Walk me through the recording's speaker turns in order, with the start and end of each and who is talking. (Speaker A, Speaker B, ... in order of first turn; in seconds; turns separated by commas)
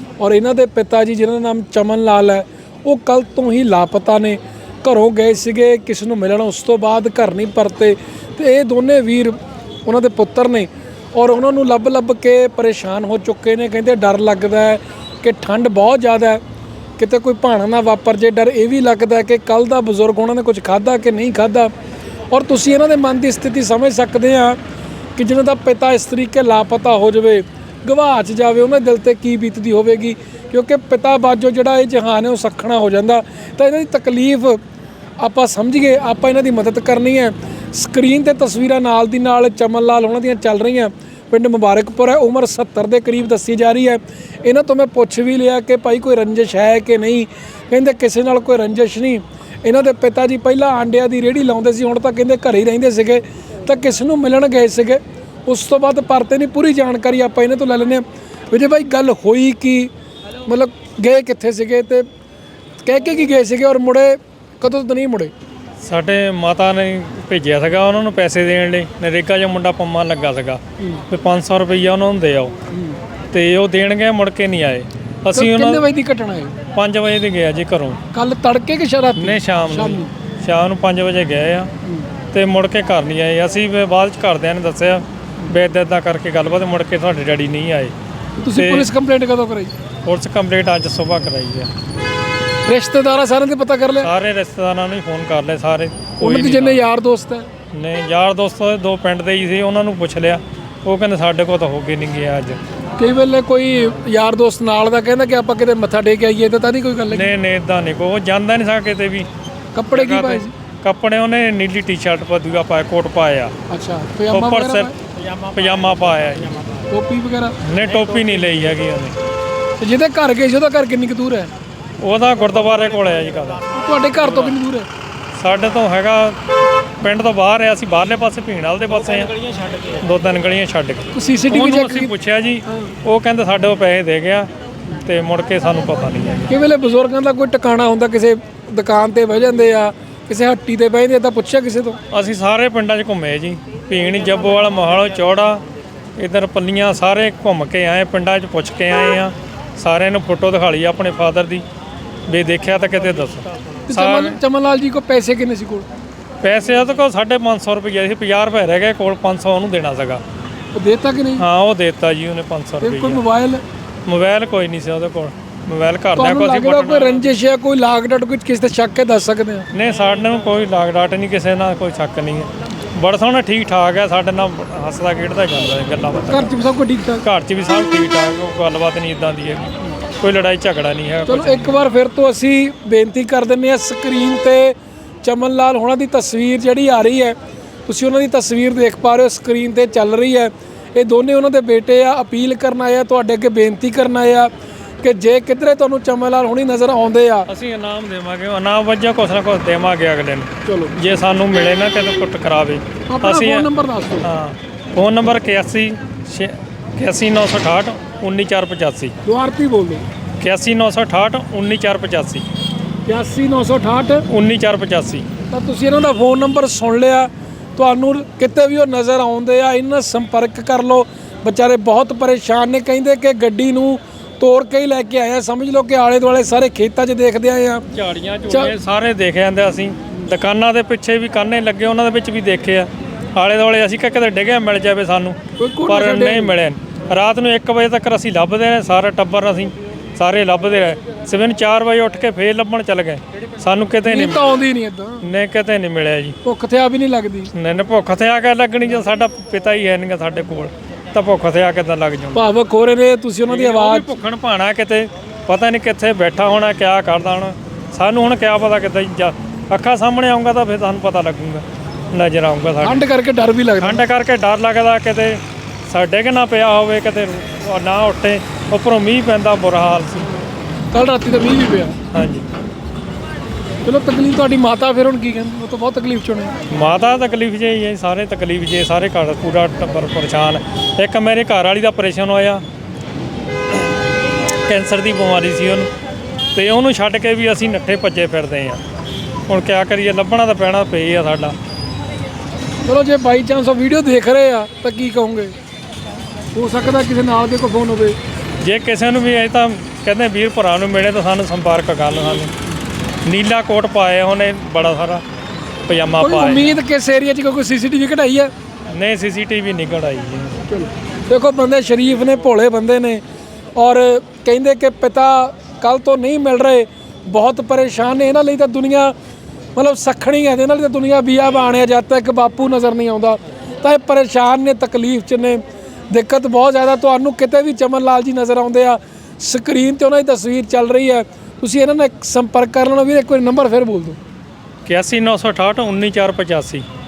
Speaker A: 0.2-16.4, Speaker A: 17.0-21.7, Speaker A: 22.3-24.6, Speaker A: 25.2-34.6, Speaker A: 35.2-59.9, Speaker A: 60.5-62.0, Speaker A: 62.8-65.3, Speaker B: 65.8-72.5, Speaker A: 72.7-73.0, Speaker B: 73.3-75.8, Speaker A: 75.3-76.5, Speaker B: 76.7-78.0, Speaker A: 78.1-80.1, Speaker B: 79.2-81.7, Speaker A: 81.8-82.1, Speaker B: 82.3-87.9, Speaker A: 88.4-89.7, Speaker B: 88.5-88.9, Speaker B: 90.0-91.7, Speaker A: 92.7-94.1, Speaker B: 94.0-96.8, Speaker A: 96.2-97.5, Speaker B: 97.7-102.6, Speaker A: 103.0-107.3, Speaker B: 107.1-109.3, Speaker A: 109.7-110.5, Speaker B: 109.9-113.5, Speaker A: 113.7-114.9, Speaker B: 114.3-116.6, Speaker A: 116.9-117.6, Speaker B: 117.6-119.2, Speaker A: 119.8-121.5, Speaker B: 122.0-123.6, Speaker A: 123.7-124.9, Speaker B: 125.3-126.4, Speaker B: 127.0-129.4, Speaker B: 130.0-134.5, Speaker A: 131.1-132.1, Speaker A: 132.7-132.9, Speaker B: 135.0-136.5, Speaker A: 136.5-142.0, Speaker B: 142.1-145.6, Speaker B: 146.2-151.6, Speaker B: 152.3-154.4, Speaker A: 153.9-155.9, Speaker B: 156.4-160.2, Speaker A: 160.7-161.4, Speaker B: 161.4-163.2, Speaker A: 162.8-163.6, Speaker B: 164.1-167.3, Speaker A: 166.2-169.7, Speaker B: 169.7-176.5, Speaker A: 176.3-177.2, Speaker B: 177.2-181.8, Speaker A: 181.3-187.3, Speaker A: 187.9-194.5, Speaker A: 195.0-197.5, Speaker B: 197.5-203.7, Speaker A: 200.6-201.0, Speaker A: 203.1-204.3, Speaker B: 204.2-209.1, Speaker A: 209.2-210.0, Speaker B: 210.4-212.4, Speaker A: 213.1-214.3, Speaker B: 214.3-215.2, Speaker A: 215.5-227.8, Speaker B: 227.9-244.6, Speaker A: 235.6-236.6, Speaker A: 244.1-245.2, Speaker B: 245.2-246.3, Speaker A: 246.4-247.5, Speaker B: 247.5-252.4, Speaker A: 252.3-254.2, Speaker B: 253.5-263.1, Speaker A: 262.8-264.0, Speaker B: 263.8-270.3, Speaker A: 270.9-272.0, Speaker B: 272.1-272.4, Speaker A: 273.8-276.6, Speaker B: 276.7-282.6, Speaker B: 284.6-285.9, Speaker B: 286.5-288.8, Speaker B: 289.5-291.6, Speaker A: 292.8-295.5, Speaker A: 296.5-298.2, Speaker B: 298.6-302.5, Speaker B: 303.2-305.2, Speaker B: 305.9-306.7, Speaker A: 306.2-308.5, Speaker B: 308.9-310.6, Speaker A: 310.7-313.2, Speaker A: 313.8-319.1, Speaker A: 319.8-334.2, Speaker B: 334.9-336.8